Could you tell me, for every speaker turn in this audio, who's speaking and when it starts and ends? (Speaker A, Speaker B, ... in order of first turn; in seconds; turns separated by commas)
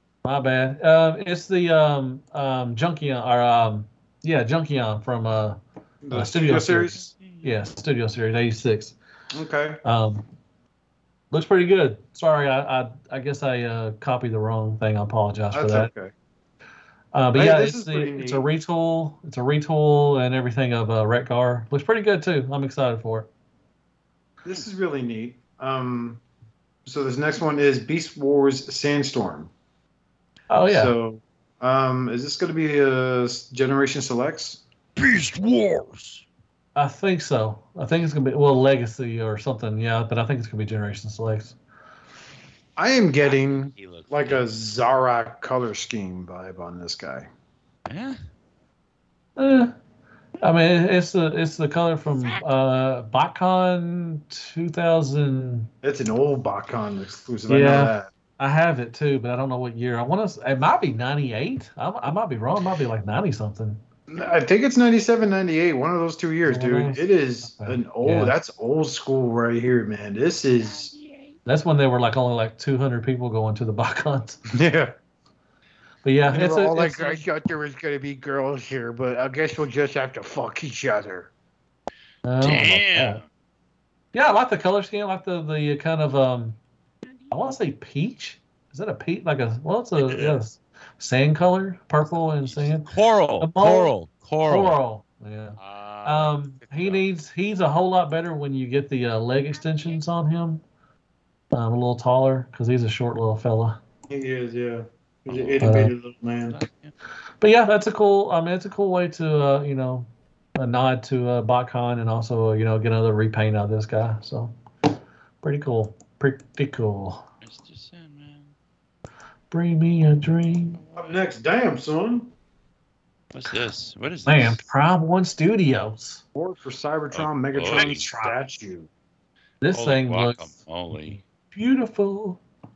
Speaker A: 0.2-5.6, Speaker B: 6.0-7.0, Speaker A: 6.1-8.9, Speaker C: 7.1-7.5, Speaker B: 9.3-9.8, Speaker A: 9.8-10.2, Speaker A: 11.3-15.9, Speaker B: 15.5-16.1, Speaker A: 17.1-23.3, Speaker B: 17.3-18.4, Speaker B: 24.4-26.2, Speaker B: 26.9-29.5, Speaker A: 30.5-30.9, Speaker B: 30.7-34.6, Speaker C: 35.0-36.2, Speaker A: 36.8-41.5, Speaker B: 42.8-47.3, Speaker C: 43.3-44.4, Speaker C: 47.9-48.2, Speaker A: 49.4-49.7, Speaker A: 50.4-55.7, Speaker B: 55.8-58.1, Speaker A: 57.5-63.8, Speaker B: 64.1-71.0, Speaker A: 66.4-68.3, Speaker A: 71.5-74.4, Speaker B: 74.5-74.9, Speaker A: 76.0-77.2, Speaker B: 76.3-81.3, Speaker A: 82.2-83.2, Speaker C: 82.4-83.2, Speaker A: 84.1-86.6, Speaker A: 87.3-92.9, Speaker C: 90.0-90.4, Speaker C: 92.4-94.8, Speaker A: 93.4-93.9, Speaker A: 94.5-100.6, Speaker C: 95.6-97.0, Speaker A: 101.5-103.8, Speaker B: 104.1-106.6, Speaker C: 105.3-105.6, Speaker A: 105.6-105.9, Speaker C: 106.5-106.9, Speaker A: 107.4-114.5, Speaker A: 115.4-117.2, Speaker C: 117.4-118.5, Speaker A: 119.5-120.8, Speaker C: 120.8-121.2, Speaker B: 121.0-122.3, Speaker C: 123.3-124.6, Speaker A: 124.3-126.2, Speaker B: 126.3-128.9, Speaker C: 127.1-128.0, Speaker A: 127.7-128.4, Speaker A: 129.6-130.5, Speaker C: 129.7-131.2, Speaker A: 131.5-132.4